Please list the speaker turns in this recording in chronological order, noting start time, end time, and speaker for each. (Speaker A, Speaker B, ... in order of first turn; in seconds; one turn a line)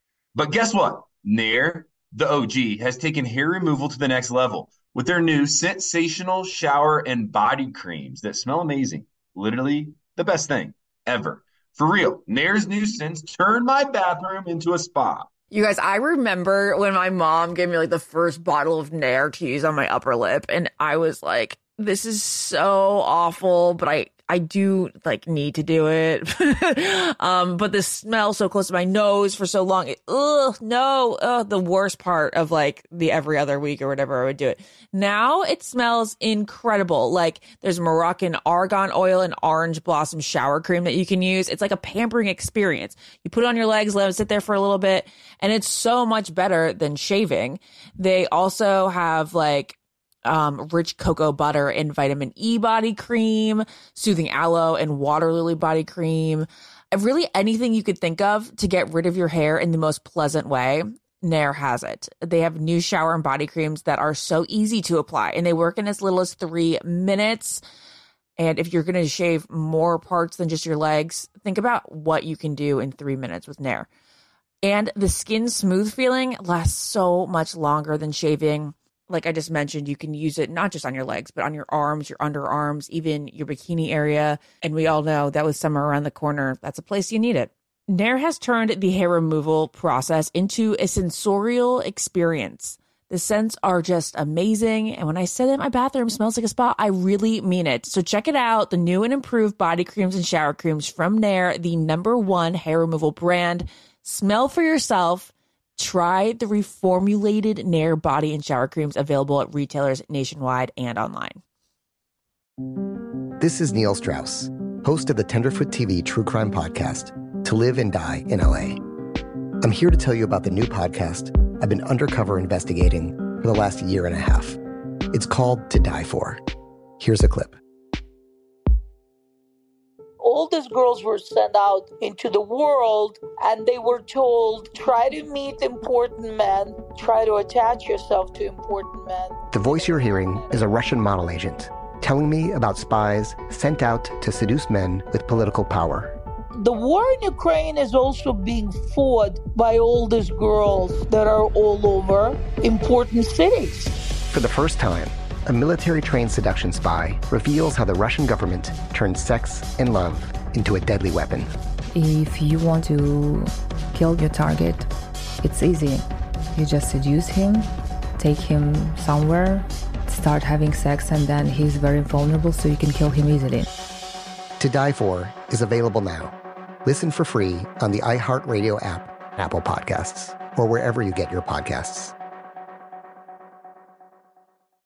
Speaker A: 0.3-15.3
Speaker B: 15.5-67.6
Speaker B: 68.4-73.9
Speaker B: 74.6-111.4
Speaker C: 113.4-118.8
Speaker C: 119.6-124.6
Speaker C: 125.1-126.4
Speaker C: 127.0-127.6
Speaker D: 130.2-139.4
Speaker C: 139.5-146.1
Speaker D: 146.6-153.9
Speaker C: 154.3-161.5
Speaker E: 161.9-164.9
Speaker E: 165.4-173.7
Speaker C: 174.6-182.1